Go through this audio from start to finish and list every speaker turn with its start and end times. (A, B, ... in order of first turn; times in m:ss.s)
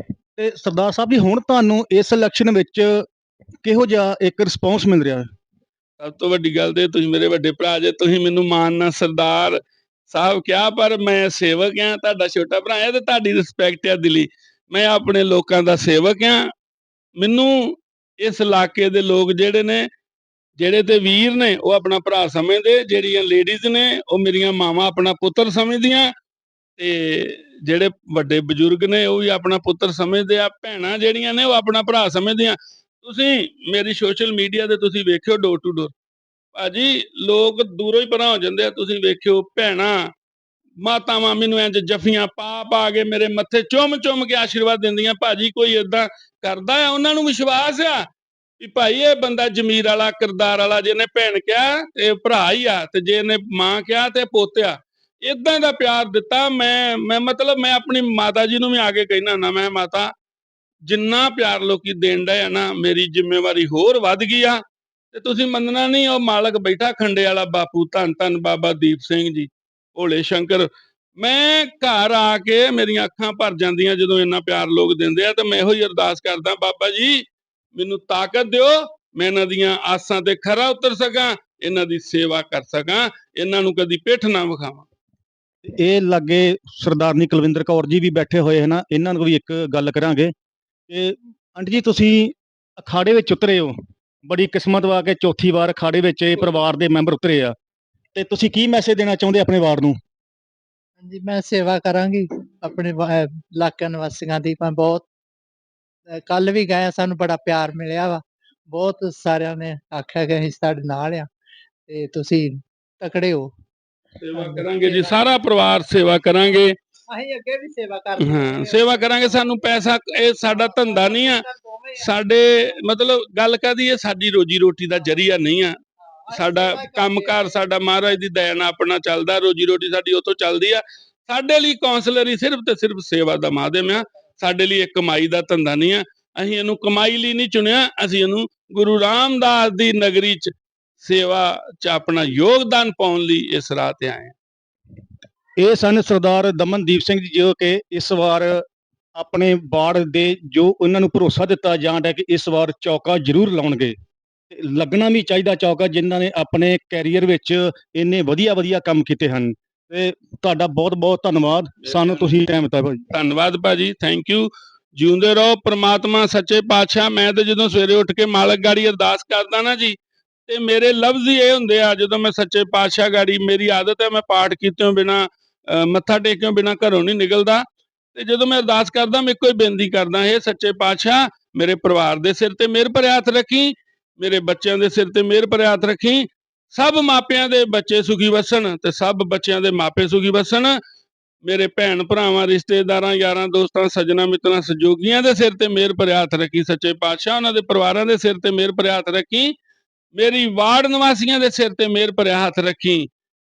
0:00.4-0:03.0 A
0:03.6-0:05.3 A
0:06.0-0:09.6 B
0:10.1-0:16.4 B
0:17.2-0:19.8 B
0:20.6-0:26.1 B
0:26.8-0:35.9 B
0:36.6-0:40.0 B
0:40.8-0:48.0 B
0:48.6-1:00.1 B
1:00.9-1:04.6 B
1:05.1-1:17.2 B
1:17.8-1:24.9 B
1:25.6-1:30.3 A
1:30.9-1:33.7 A
1:34.3-1:37.5 A
1:38.1-1:40.0 A
1:41.0-1:45.1 C
1:46.1-1:51.3 C
1:51.9-1:53.5 C
1:54.2-1:56.7 B
1:54.3-1:55.2 C
1:57.1-1:59.5 C
1:58.2-2:01.4 B
2:00.4-2:02.1 C
2:02.1-2:05.8 B
2:06.2-2:07.6 C
2:06.4-2:24.3 B
2:25.6-2:28.6 A
2:29.2-2:33.9 A
2:34.5-2:43.0 A
2:41.8-2:42.4 B
2:43.1-2:57.6 B
2:58.2-3:10.8 B
3:11.4-3:19.5 B
3:20.2-3:23.1 B